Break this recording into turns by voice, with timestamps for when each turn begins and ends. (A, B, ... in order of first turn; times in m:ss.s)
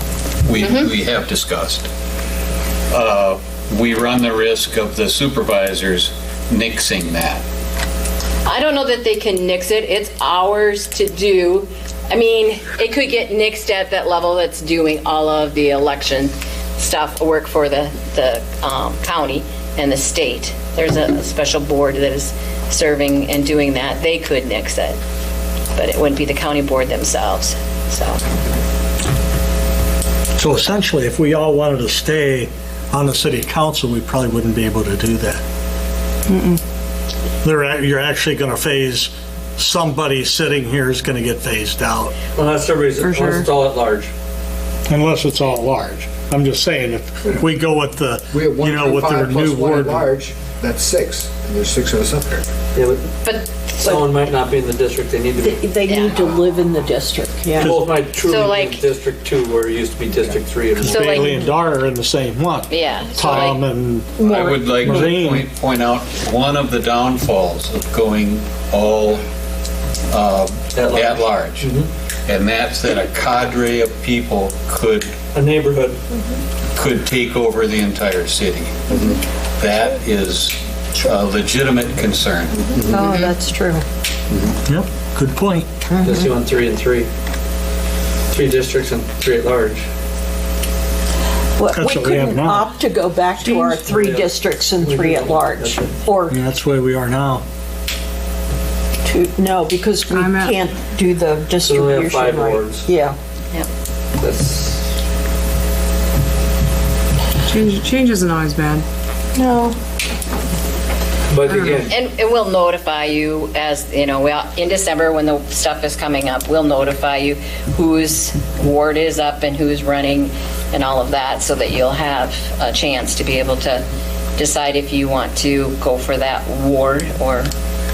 0:00.4-0:01.9 A
0:00.6-0:00.9 B
0:02.9-0:07.4 A
0:08.5-0:25.0 B
0:25.8-0:28.2 B
0:30.4-0:35.4 C
0:36.3-0:36.6 D
0:37.4-0:42.1 C
0:42.4-0:44.1 E
0:43.0-0:43.5 D
0:44.9-0:50.1 C
0:48.3-0:52.4 F
0:52.8-0:53.1 E
0:53.2-0:54.0 B
0:53.8-0:55.6 E
0:55.4-0:57.7 G
0:55.9-0:56.2 B
0:57.6-1:01.1 E
0:57.6-0:58.0 C
0:58.2-0:58.9 B
1:00.8-1:05.5 C
1:00.9-1:01.4 B
1:02.7-1:03.6 B
1:04.2-1:05.0 G
1:04.2-1:09.2 A
1:10.1-1:11.7 A
1:10.7-1:11.9 E
1:12.3-1:15.2 A
1:15.3-1:16.0 E
1:16.8-1:23.0 A
1:22.8-1:23.8 G
1:23.0-1:23.3 B
1:24.7-1:25.7 C
1:25.9-1:26.3 G
1:26.0-1:27.1 E
1:28.3-1:29.8 E
1:31.6-1:36.4 G
1:31.7-1:32.7 C
1:33.8-1:36.0 E
1:36.3-1:37.4 C
1:39.0-1:43.2 G
1:40.1-1:40.6 D
1:41.7-1:42.9 E
1:44.2-1:44.8 E
1:47.5-1:48.8 D
1:49.4-1:49.8 G
1:51.3-1:51.9 E
1:51.5-1:51.9 D
1:51.9-2:03.8 B
2:04.4-2:07.5 B